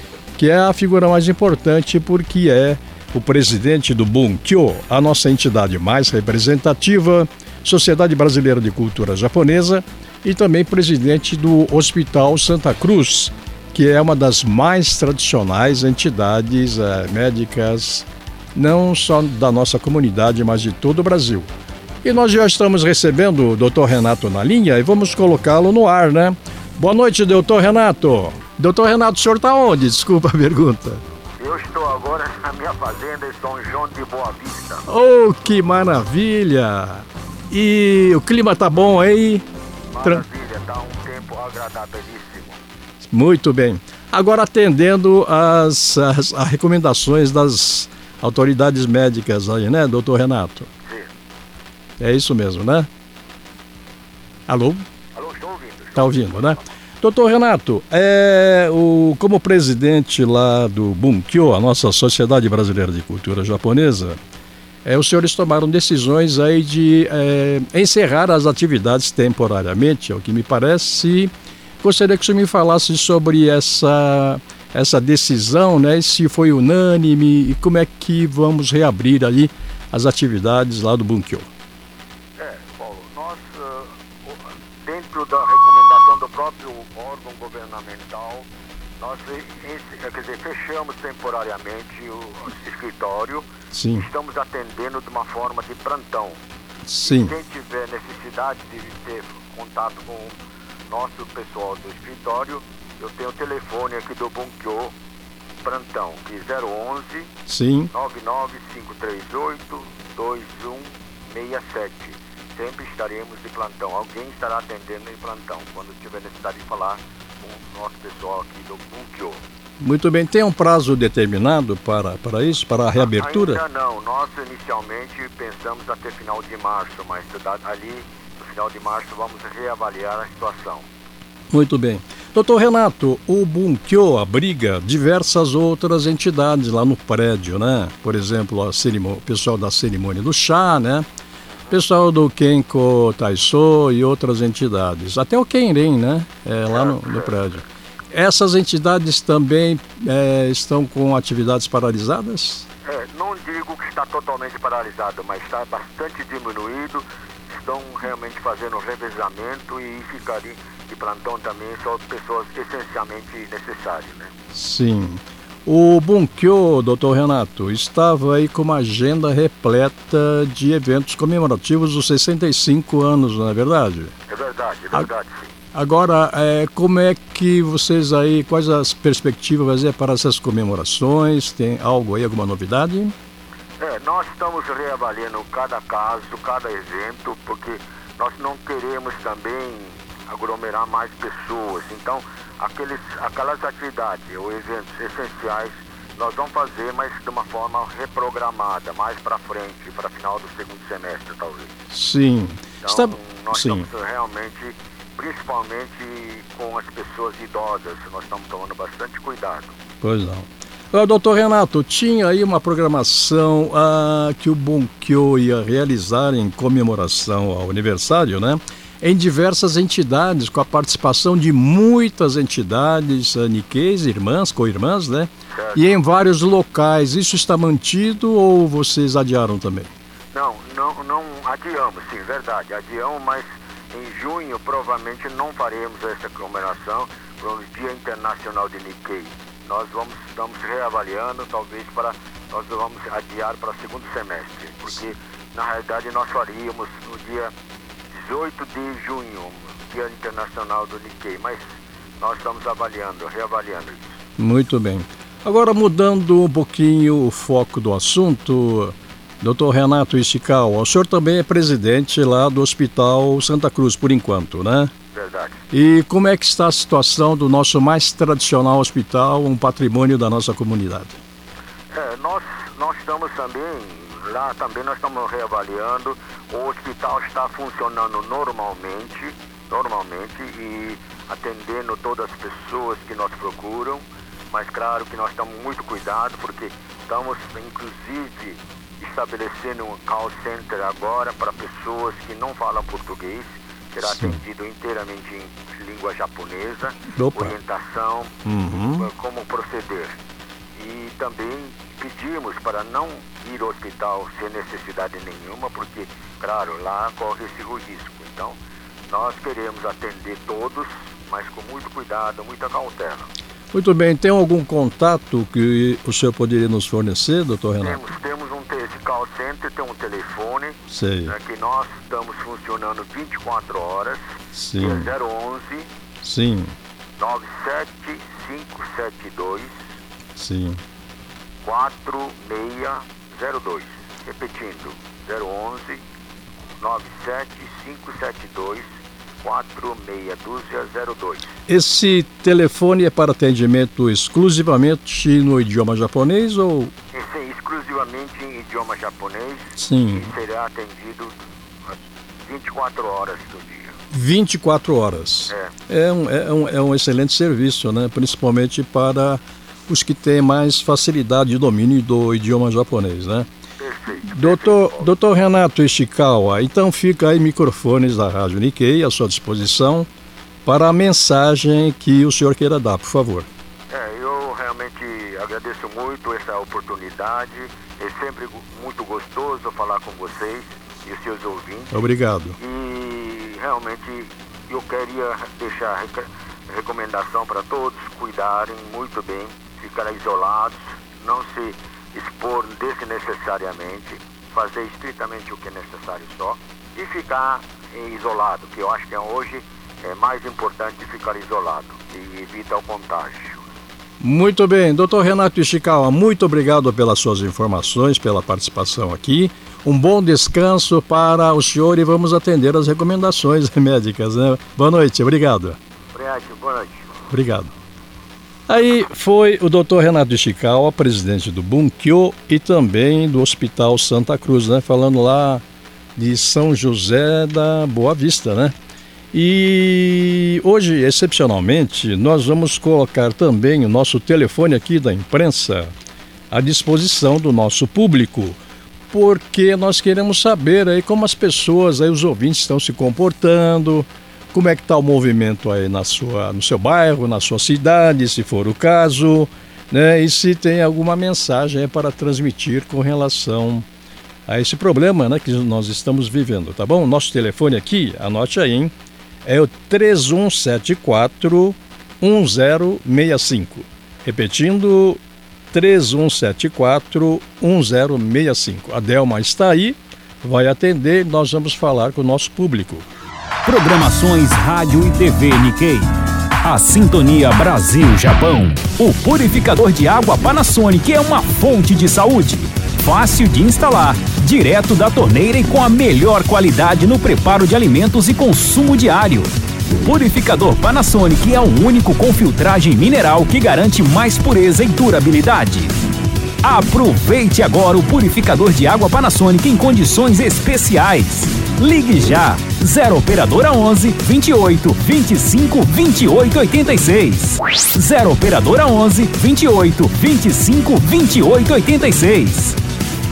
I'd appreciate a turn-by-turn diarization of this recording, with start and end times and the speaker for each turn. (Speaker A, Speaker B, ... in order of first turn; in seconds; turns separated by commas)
Speaker A: 0.3-21.5, Speaker A: 22.0-31.0, Speaker B: 31.4-34.8, Speaker A: 34.9-39.5, Speaker B: 39.9-42.6, Speaker A: 43.0-50.7, Speaker B: 50.8-51.1, Speaker A: 52.0-52.9, Speaker A: 54.5-54.8, Speaker B: 55.1-56.6, Speaker A: 55.9-64.2, Speaker A: 64.8-81.5, Speaker B: 82.4-88.5, Speaker B: 89.0-96.4, Speaker A: 93.7-94.1, Speaker A: 96.8-97.4, Speaker B: 97.0-100.4, Speaker B: 100.9-104.9, Speaker B: 105.6-107.3, Speaker A: 107.5-107.9, Speaker B: 107.9-119.4, Speaker A: 119.8-123.6, Speaker B: 123.0-130.8, Speaker A: 131.5-141.1, Speaker A: 141.7-152.7, Speaker B: 146.7-147.3, Speaker B: 152.8-164.3, Speaker A: 164.5-174.1, Speaker B: 174.3-175.5, Speaker A: 175.7-183.1, Speaker B: 183.8-201.7, Speaker A: 201.9-203.9, Speaker B: 202.8-209.8, Speaker A: 210.0-229.9, Speaker B: 225.5-225.8, Speaker B: 230.3-247.5, Speaker B: 248.1-251.6, Speaker B: 252.2-254.1, Speaker A: 254.4-264.9, Speaker B: 265.1-265.6, Speaker A: 265.7-271.2, Speaker B: 271.9-298.4, Speaker A: 294.0-294.4, Speaker A: 297.1-297.6, Speaker A: 298.4-299.1, Speaker B: 298.9-300.2, Speaker B: 300.7-308.6, Speaker B: 309.1-313.3, Speaker A: 313.7-318.0, Speaker B: 317.8-324.2, Speaker A: 320.9-321.3, Speaker A: 324.5-325.1, Speaker B: 324.8-325.9, Speaker A: 326.2-326.7, Speaker B: 327.2-329.9, Speaker A: 330.4-330.8, Speaker B: 331.6-336.0, Speaker B: 336.8-338.9, Speaker B: 339.4-341.5, Speaker A: 341.7-346.9, Speaker B: 347.1-354.0, Speaker A: 349.8-350.3, Speaker A: 354.1-363.5, Speaker B: 363.8-365.1, Speaker A: 364.2-370.1, Speaker A: 370.6-373.5, Speaker B: 373.9-382.0, Speaker A: 381.9-382.6, Speaker B: 382.6-403.6, Speaker A: 404.2-415.8, Speaker B: 416.1-417.1, Speaker A: 417.3-417.7, Speaker A: 418.7-425.6, Speaker A: 426.1-428.7, Speaker A: 429.3-435.9, Speaker A: 436.5-438.6, Speaker A: 439.1-453.9, Speaker A: 454.5-458.9, Speaker A: 459.4-465.2, Speaker A: 465.7-473.1, Speaker C: 473.6-476.1, Speaker C: 476.6-489.5, Speaker C: 490.0-495.9, Speaker C: 496.6-512.8